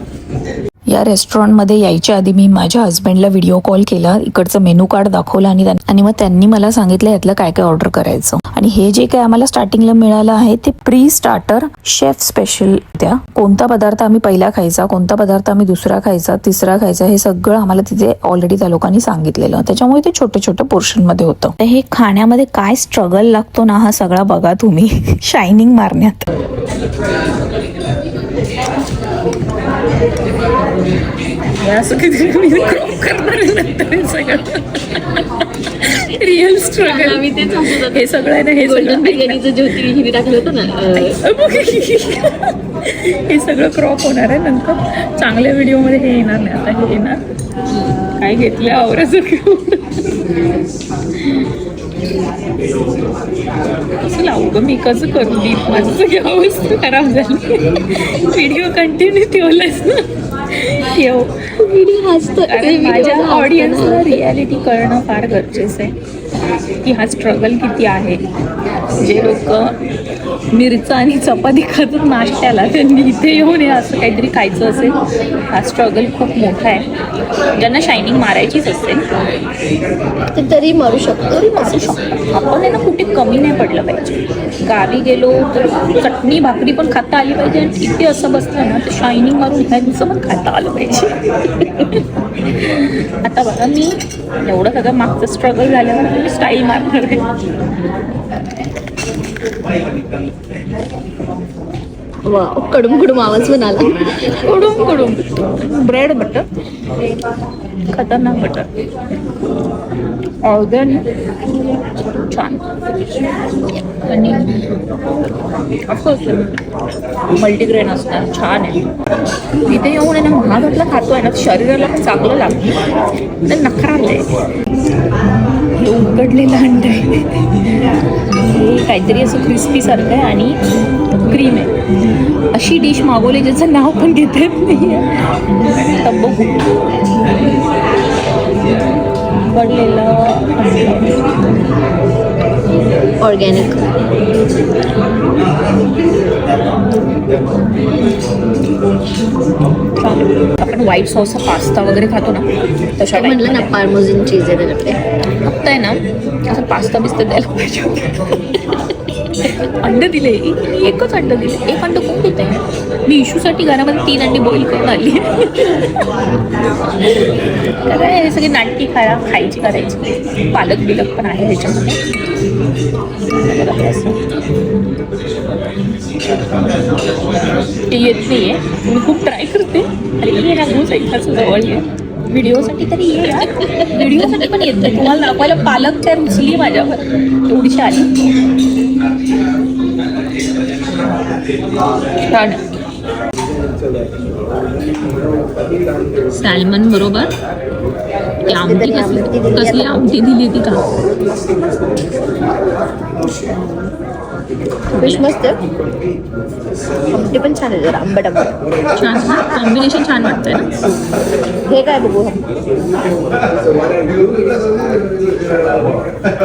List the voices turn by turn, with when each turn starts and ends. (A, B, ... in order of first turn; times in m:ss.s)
0:00.9-0:26.2 A
0:31.6-0:39.9 B
0:36.8-0:41.2 C
0:40.8-0:47.2 B
0:48.2-0:50.0 B
0:54.1-1:01.5 B
1:01.6-1:04.2 C
1:02.4-1:05.9 B
1:06.8-1:08.2 B
1:09.0-1:09.7 B
1:10.5-1:15.0 B
1:15.5-1:16.9 B
1:17.6-1:19.0 B
1:20.3-1:21.8 C
1:21.3-1:32.0 B
1:33.2-1:37.2 B
1:42.2-1:44.0 C
1:44.3-1:46.4 B
1:47.9-1:48.7 B
1:50.4-1:51.0 B
1:52.2-1:52.6 B
1:54.1-1:54.6 B
1:55.9-1:56.5 B
1:57.3-1:58.8 B
1:59.7-2:02.9 B
2:03.4-2:04.2 B
2:05.8-2:07.1 B
2:08.4-2:10.6 B
2:11.3-2:11.7 B
2:12.5-2:15.1 B
2:16.0-2:16.6 B
2:19.5-2:21.1 B
2:23.2-2:23.8 C
2:30.0-2:32.4 B
2:33.0-2:33.8 B
2:33.0-2:35.0 C
2:35.4-2:38.2 B
2:39.4-2:46.0 B
2:47.8-2:52.0 B
2:53.4-2:54.2 B
2:57.9-3:08.1 B
3:03.6-3:05.2 C
3:12.3-3:12.6 B
3:16.3-3:17.3 B
3:18.4-3:20.1 C
3:18.5-3:20.8 B
3:23.4-3:23.9 C
3:24.9-3:25.3 B
3:25.0-3:25.6 C
3:27.1-3:28.5 C
3:29.0-3:30.7 B
3:31.6-3:32.4 C